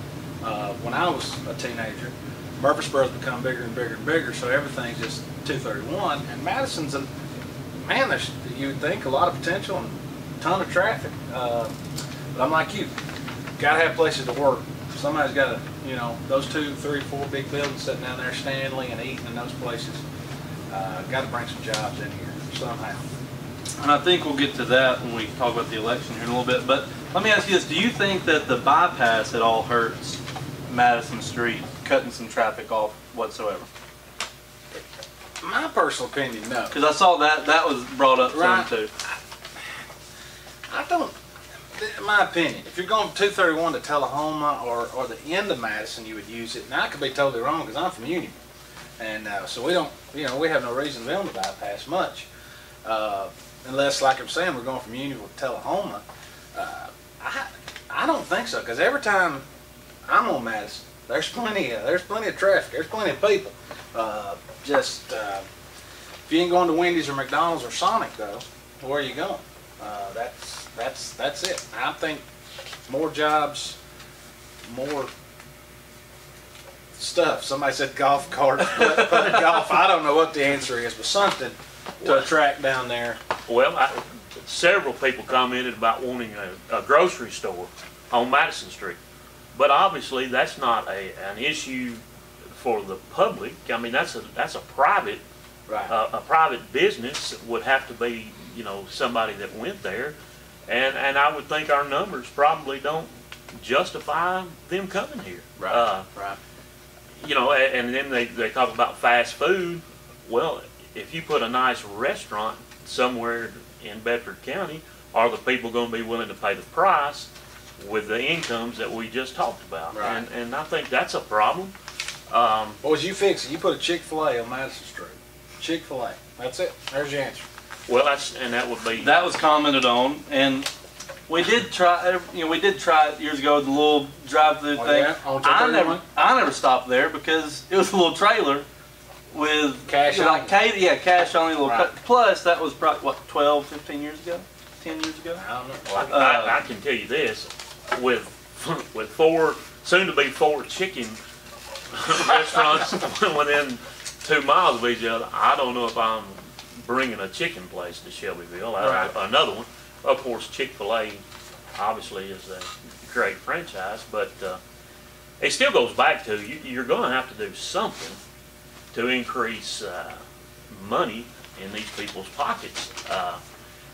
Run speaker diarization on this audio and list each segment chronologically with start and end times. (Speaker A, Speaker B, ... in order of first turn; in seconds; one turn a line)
Speaker A: 0.4-7.0
Speaker A: 7.7-11.7
Speaker A: 12.3-13.0
Speaker A: 13.6-20.0
Speaker A: 20.7-23.0
Speaker B: 23.8-33.7
Speaker A: 35.4-36.7
Speaker B: 36.7-38.9
Speaker A: 38.2-39.2
Speaker A: 40.7-41.1
Speaker A: 41.7-48.4
Speaker A: 49.0-52.3
Speaker A: 52.8-59.4
Speaker A: 60.1-65.4
Speaker A: 66.2-72.2
Speaker A: 72.8-73.8
Speaker A: 74.7-75.1
Speaker A: 77.0-83.2
Speaker B: 78.7-79.7
Speaker C: 83.5-89.0
Speaker C: 89.5-95.2
Speaker A: 95.7-95.9
Speaker C: 95.9-100.2
Speaker C: 100.7-106.0
Speaker A: 105.6-106.4
Speaker C: 107.2-121.7
Speaker A: 119.9-120.2
Speaker C: 122.3-122.8
Speaker A: 122.8-127.4
Speaker C: 127.9-129.1
Speaker B: 129.0-130.7
Speaker B: 131.3-138.7
Speaker A: 134.7-136.1
Speaker B: 139.3-145.4
Speaker A: 139.9-140.5
Speaker A: 141.6-141.9
Speaker A: 145.3-146.1
Speaker C: 145.8-151.2
Speaker B: 146.1-146.6
Speaker C: 151.9-161.2
Speaker A: 158.8-159.1
Speaker C: 161.7-164.6
Speaker C: 165.4-168.2
Speaker C: 168.9-173.4